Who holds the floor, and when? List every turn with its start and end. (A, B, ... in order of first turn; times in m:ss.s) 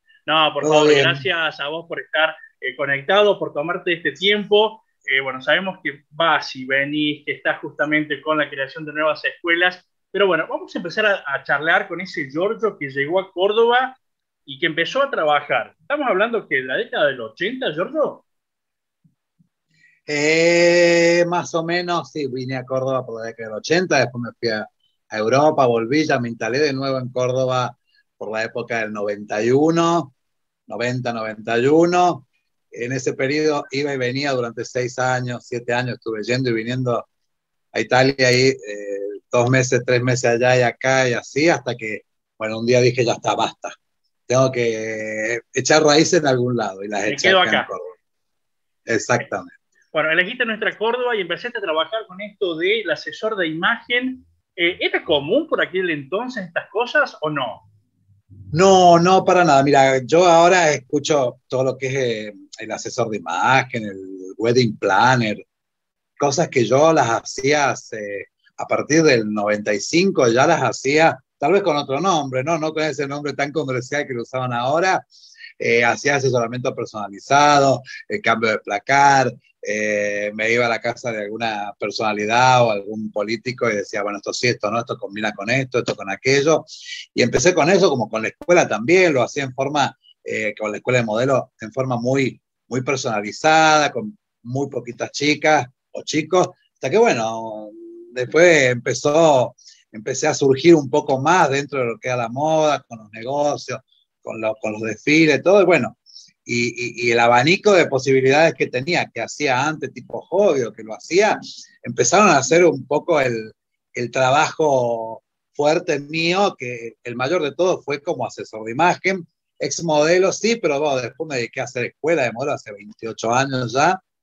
0:00.2-0:18.2 A
0:00.6-0:01.2 B
0:20.1-0:30.1 B
0:30.7-0:37.1 B
0:37.7-0:43.8 B
0:44.3-0:48.0 B
0:47.1-0:47.7 A
0:48.9-0:49.6 B
0:49.9-0:57.7 A
0:58.5-1:05.4 B
1:06.2-1:15.0 B
1:15.6-2:04.0 B